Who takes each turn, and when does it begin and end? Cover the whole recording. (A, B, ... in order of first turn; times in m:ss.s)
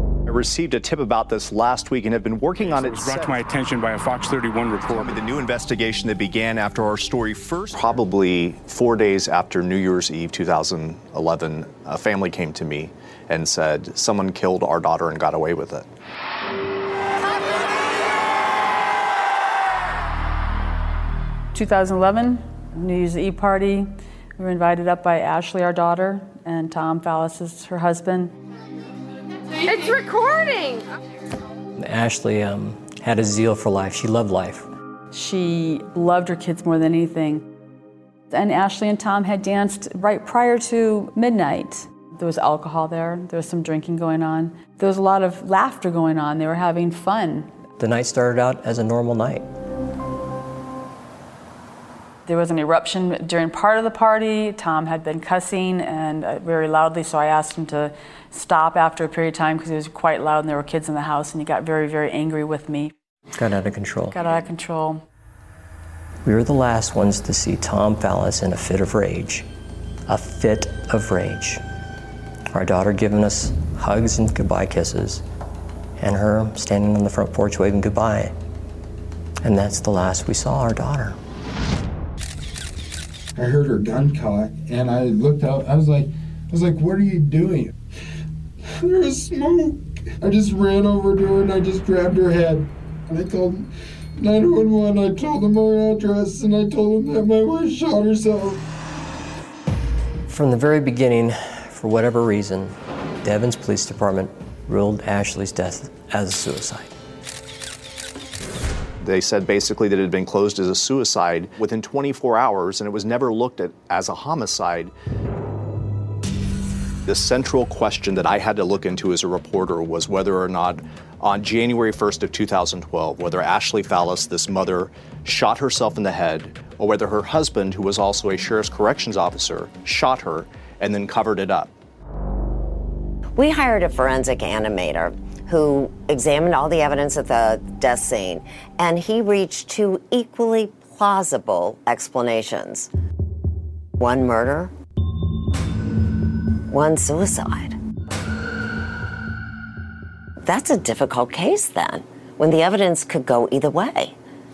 0:00.2-0:03.6 A
0:02.6-0:05.2 B
0:04.9-0:15.9 A
0:21.5-0:28.3 C
0:31.8-0:34.7 D
0:35.1-0:37.4 C
0:38.3-0:47.5 C
0:47.8-0:49.5 D
0:52.2-1:02.9 C
1:03.4-1:04.2 D
1:04.1-1:05.0 C
1:06.2-1:09.5 D
1:10.1-1:11.6 D
1:12.5-1:15.2 D
1:16.0-1:18.3 D
1:19.4-1:21.2 D
1:23.4-1:27.7 E
1:28.8-1:38.6 E
1:40.3-1:46.9 D
1:49.0-1:54.9 A
1:57.0-2:11.7 A
2:13.4-2:22.9 F
2:24.0-2:24.7 F
2:26.7-2:27.8 F
2:30.4-2:34.1 F